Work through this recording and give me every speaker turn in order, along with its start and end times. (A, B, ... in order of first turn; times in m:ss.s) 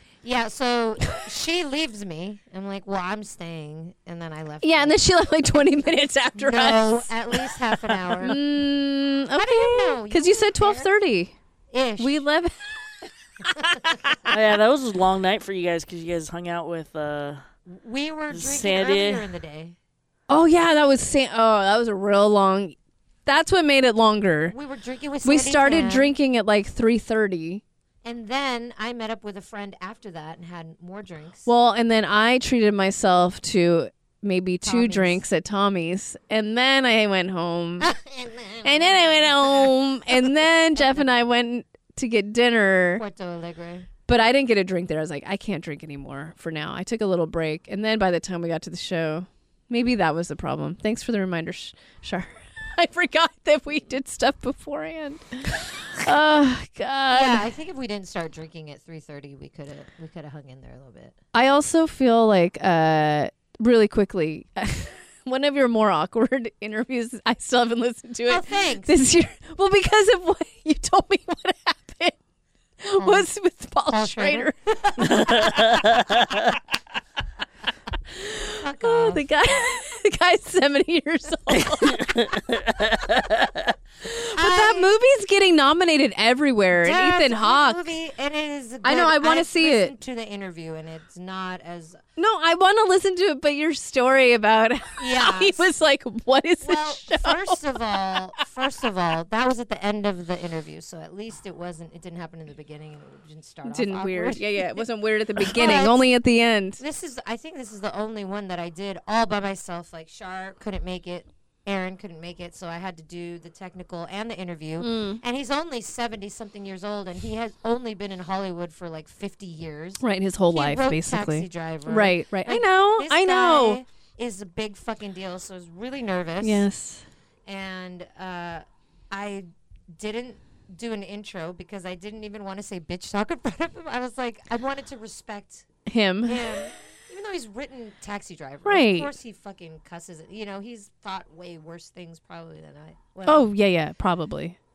0:00.2-0:05.0 A
0:04.6-0:11.3 B
0:06.3-0:08.4 A
0:09.3-0:10.9 A
0:11.7-0:12.2 A
0:12.0-0:14.4 B
0:13.5-0:14.2 A
0:14.3-0:17.4 C
0:17.7-0:19.8 A
0:18.3-0:19.3 C
0:20.3-0:24.6 B
0:24.5-0:26.1 A
0:25.2-0:27.6 B
0:28.0-0:31.5 A
0:31.5-0:37.9 B
0:34.6-0:35.2 A
0:37.8-0:41.1 A
0:38.6-0:43.0 B
0:43.0-0:43.9 A
0:44.1-0:57.5 B
0:57.1-1:01.2 A
1:01.3-1:12.2 B
1:08.3-1:08.9 A
1:12.8-1:15.9 B
1:13.0-1:13.3 A
1:13.9-1:15.7 A
1:15.1-1:16.4 C
1:18.1-1:23.4 B
1:18.6-1:19.3 A
1:21.6-1:23.5 C
1:24.0-1:27.8 B
1:24.3-1:24.9 A
1:26.7-1:32.0 A
1:28.8-1:29.9 B
1:32.2-1:37.6 B
1:35.0-1:35.7 A
1:36.6-1:44.8 A
1:43.6-1:46.8 B
1:45.4-1:46.1 A
1:46.8-2:06.7 A
1:54.8-1:55.2 B
2:00.0-2:03.8 B
2:06.4-2:07.0 B
2:07.5-2:15.7 A
2:15.9-2:16.6 B
2:16.2-2:23.5 A
2:18.6-2:19.1 B
2:23.3-2:24.6 B